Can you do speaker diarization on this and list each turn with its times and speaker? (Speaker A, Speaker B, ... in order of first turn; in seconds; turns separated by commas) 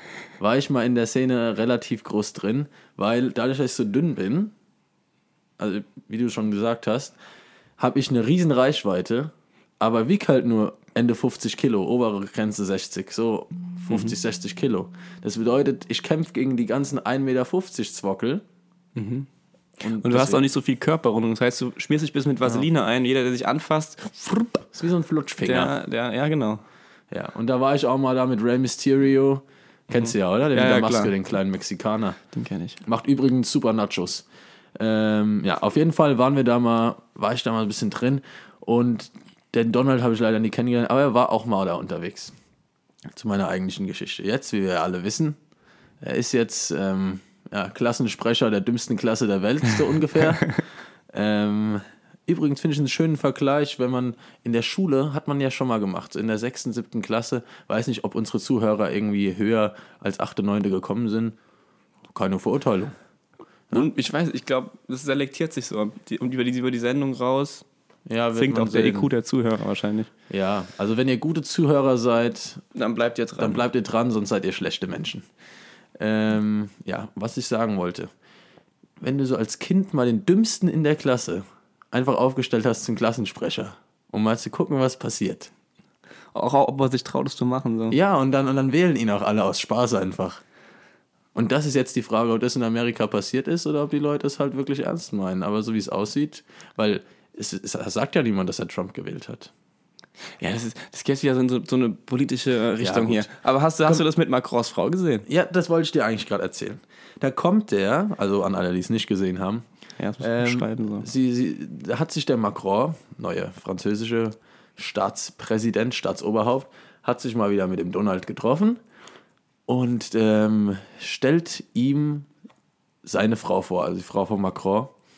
Speaker A: 0.4-4.5, Speaker A: 5.6-7.2, Speaker A: 7.8-18.4, Speaker B: 18.9-19.3, Speaker A: 19.8-20.4, Speaker B: 19.9-24.6, Speaker A: 24.7-25.7, Speaker B: 25.4-26.6, Speaker A: 27.1-32.2, Speaker B: 30.0-31.1, Speaker B: 32.3-32.8, Speaker A: 32.8-42.3, Speaker A: 43.1-45.4, Speaker A: 46.0-50.6, Speaker A: 51.1-61.4, Speaker A: 62.1-63.0, Speaker B: 63.7-67.6, Speaker A: 68.1-69.1, Speaker B: 68.3-70.1, Speaker A: 70.3-72.6, Speaker B: 72.7-73.6, Speaker A: 73.4-75.2, Speaker A: 76.0-78.1, Speaker A: 79.0-85.5, Speaker B: 86.3-88.0, Speaker A: 87.9-90.4, Speaker A: 91.3-99.5, Speaker B: 100.4-105.2, Speaker A: 102.8-103.3, Speaker A: 105.3-109.6, Speaker B: 110.0-111.1, Speaker A: 110.2-118.8, Speaker A: 119.7-122.3, Speaker A: 123.0-124.9